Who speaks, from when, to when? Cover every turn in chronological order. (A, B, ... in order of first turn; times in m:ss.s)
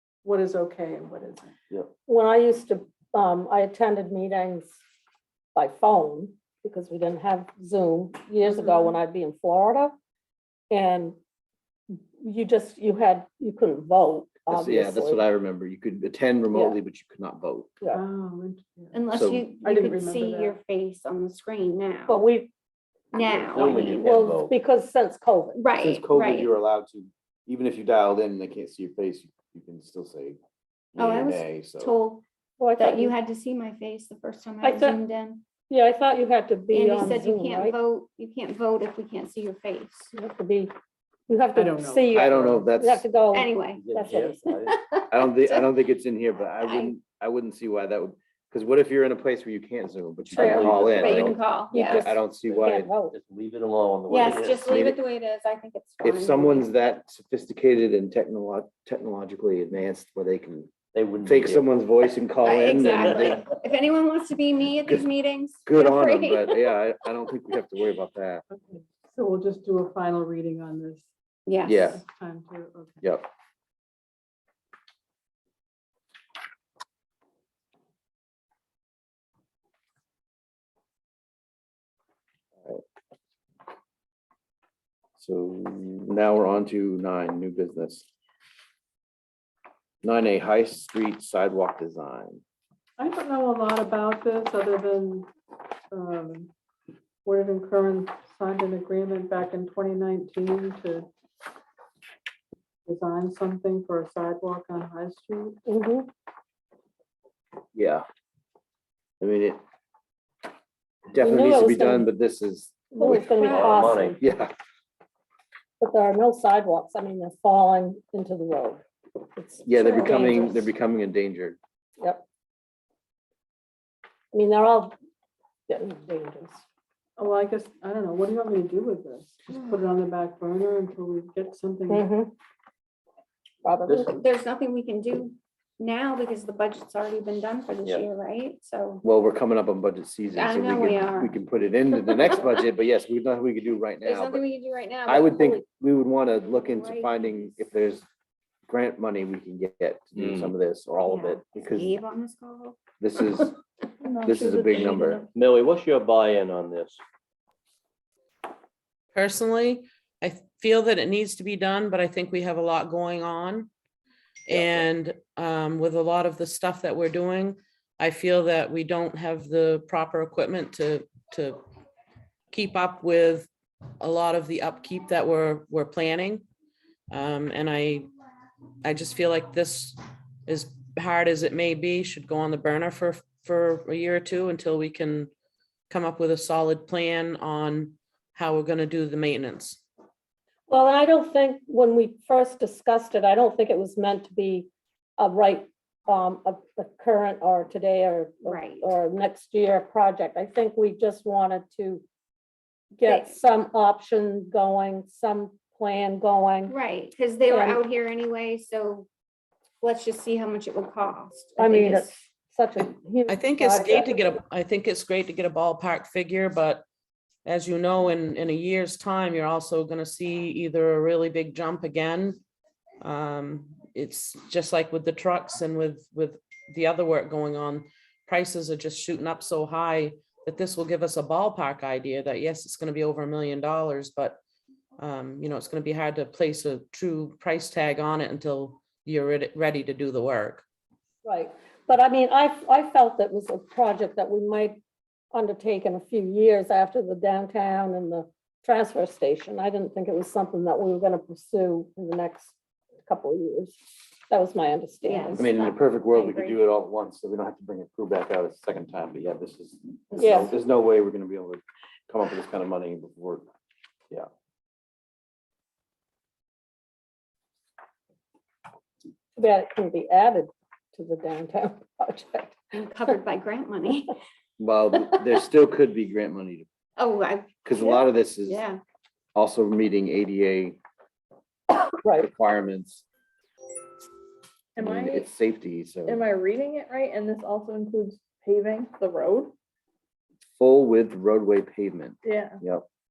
0:00.2-0:01.5 A
0:02.1-0:04.8 B
0:05.5-0:09.9 B
0:08.5-0:08.9 A
0:10.7-0:11.2 B
0:11.9-0:15.2 B
0:14.5-0:17.7 C
0:16.5-0:16.8 B
0:17.9-0:19.0 A
0:18.9-0:22.2 D
0:19.1-0:19.5 C
0:19.6-0:20.6 A
0:22.1-0:22.5 B
0:23.1-0:23.9 D
0:23.4-0:24.5 E
0:23.5-0:25.6 B
0:25.6-0:26.5 D
0:25.8-0:30.4 C
0:31.0-0:31.9 C
0:31.0-0:32.2 D
0:32.6-0:33.1 B
0:32.8-0:35.4 D
0:34.6-0:35.0 B
0:35.7-0:37.8 B
0:36.7-0:40.1 D
0:40.1-0:40.7 B
0:41.3-0:44.5 B
0:41.6-0:42.6 A
0:42.1-0:43.0 C
0:43.3-0:43.8 D
0:43.7-0:44.8 E
0:45.0-0:45.8 D
0:45.1-0:51.4 C
0:46.6-0:46.9 D
0:50.3-0:51.4 E
0:50.4-0:50.6 B
0:50.9-0:52.1 D
0:51.7-0:53.1 B
0:51.9-0:52.9 C
0:52.5-0:54.9 E
0:54.1-0:56.7 D
0:54.6-0:55.0 C
0:56.0-1:00.7 C
1:00.9-1:01.7 E
1:01.2-1:03.5 C
1:02.4-1:06.8 D
1:02.7-1:03.4 E
1:05.6-1:08.4 C
1:08.5-1:11.1 A
1:11.4-1:11.9 D
1:11.6-1:12.0 C
1:11.8-1:13.1 A
1:25.2-1:28.0 C
1:30.0-1:32.4 C
1:33.0-1:35.3 A
1:35.9-1:36.5 A
1:37.2-1:41.1 A
1:42.8-1:45.6 A
1:45.7-1:46.1 B
1:47.7-1:48.0 C
1:49.2-1:49.6 C
1:51.1-1:53.4 C
1:51.2-1:52.1 B
1:52.9-1:54.2 B
1:53.4-1:54.2 E
1:54.2-1:54.5 C
1:55.8-1:58.8 B
1:59.4-2:00.7 B
1:59.6-2:01.6 C
2:04.3-2:04.9 B
2:05.7-2:06.6 B
2:07.2-2:12.0 A
2:11.9-2:12.3 B
2:13.6-2:14.1 B
2:13.9-2:14.2 E
2:14.1-2:19.0 D
2:19.0-2:24.4 C
2:20.3-2:21.4 D
2:22.0-2:22.3 D
2:24.0-2:25.6 D
2:25.0-2:28.0 C
2:26.5-2:27.6 D
2:28.7-2:32.0 C
2:30.1-2:30.5 E
2:31.0-2:32.8 D
2:33.0-2:33.6 C
2:34.2-2:35.2 C
2:34.3-2:35.2 F
2:35.3-2:37.0 E
2:39.1-2:43.7 G
2:44.5-2:51.6 G
2:44.5-2:44.8 E
2:52.5-2:53.5 G
2:54.0-2:56.4 G
2:57.1-2:58.1 G
2:58.8-3:05.3 G
3:05.9-3:09.8 G
3:10.7-3:22.0 B
3:18.4-3:19.0 D
3:23.0-3:26.7 B
3:23.0-3:23.4 D
3:26.7-3:29.1 D
3:27.5-3:27.8 B
3:29.8-3:32.1 D
3:31.6-3:34.4 B
3:33.3-3:36.8 G
3:37.4-3:42.4 G
3:43.0-3:54.4 G
3:55.0-4:00.6 G
4:01.2-4:04.8 B
4:05.3-4:13.8 B
4:14.3-4:15.5 B
4:15.0-4:16.6 D
4:15.4-4:23.5 C
4:20.2-4:20.5 B
4:29.4-4:32.6 B
4:32.7-4:34.1 D
4:34.6-4:36.6 C
4:37.0-4:38.8 D
4:37.6-4:38.6 C
4:39.3-4:40.8 C
4:42.1-4:43.0 C
4:44.8-4:45.3 F
4:44.8-4:46.3 C
4:46.1-4:49.5 F
4:50.6-4:52.8 C
4:52.2-4:52.6 F